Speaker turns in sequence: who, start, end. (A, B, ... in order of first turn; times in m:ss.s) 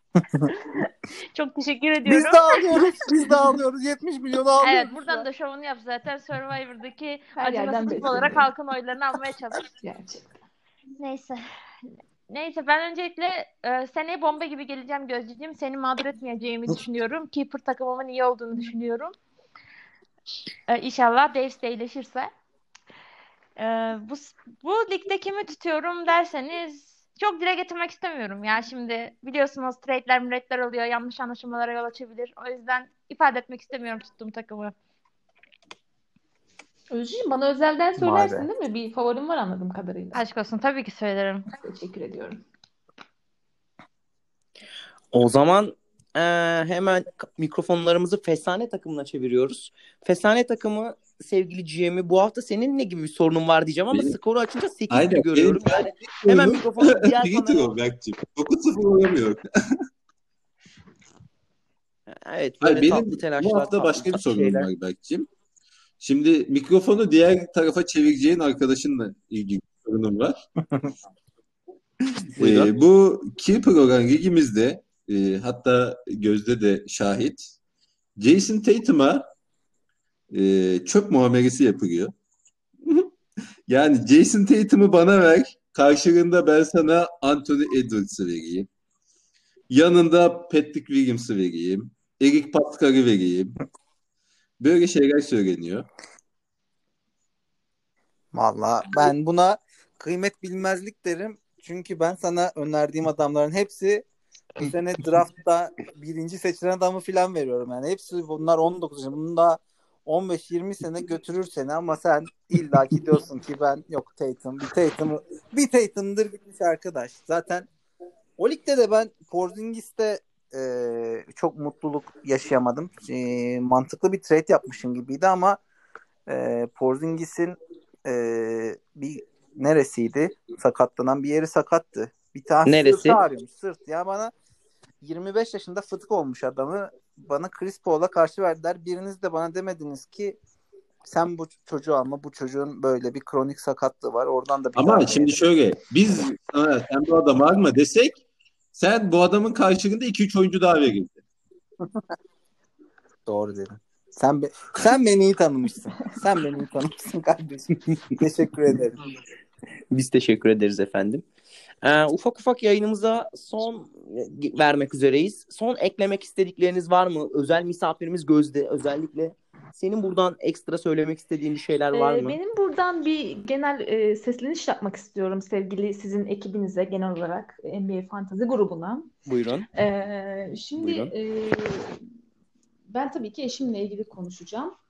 0:00.7-0:02.8 A
0:02.0-0:05.3 B
0:04.6-0:09.7 A
0:07.4-0:08.5 C
0:09.7-0:10.4 C
0:11.0-0:11.4 A
0:12.3-0:19.1 A
0:20.7-0:22.3 A
0:23.6-0:34.8 A
0:36.9-0:40.2 C
0:38.0-0:38.5 B
0:40.1-0:41.5 A
0:41.5-0:42.4 C
0:45.1-0:57.8 D
0:54.9-0:59.8 E
1:02.1-1:04.7 D
1:02.6-1:05.3 E
1:06.0-1:10.4 E
1:12.3-1:12.7 D
1:12.4-1:17.5 E
1:18.2-1:19.2 E
1:20.3-1:22.1 E
1:22.8-1:23.1 E
1:23.7-1:28.7 E
1:29.7-1:33.6 E
1:34.6-1:35.9 E
1:38.3-1:44.1 B
1:44.6-1:57.7 B
1:58.4-2:05.6 B
2:06.3-2:14.3 B
2:12.7-2:13.2 D
2:15.0-2:20.4 B
2:21.0-2:25.4 B
2:24.8-2:28.2 E
2:28.7-2:31.2 E
2:33.3-2:39.0 B
2:39.9-2:41.2 D
2:41.8-2:52.4 D
2:51.9-2:59.1 C
2:59.3-2:59.7 D
2:59.7-3:02.0 C
3:00.8-3:01.1 D
3:02.9-3:04.8 C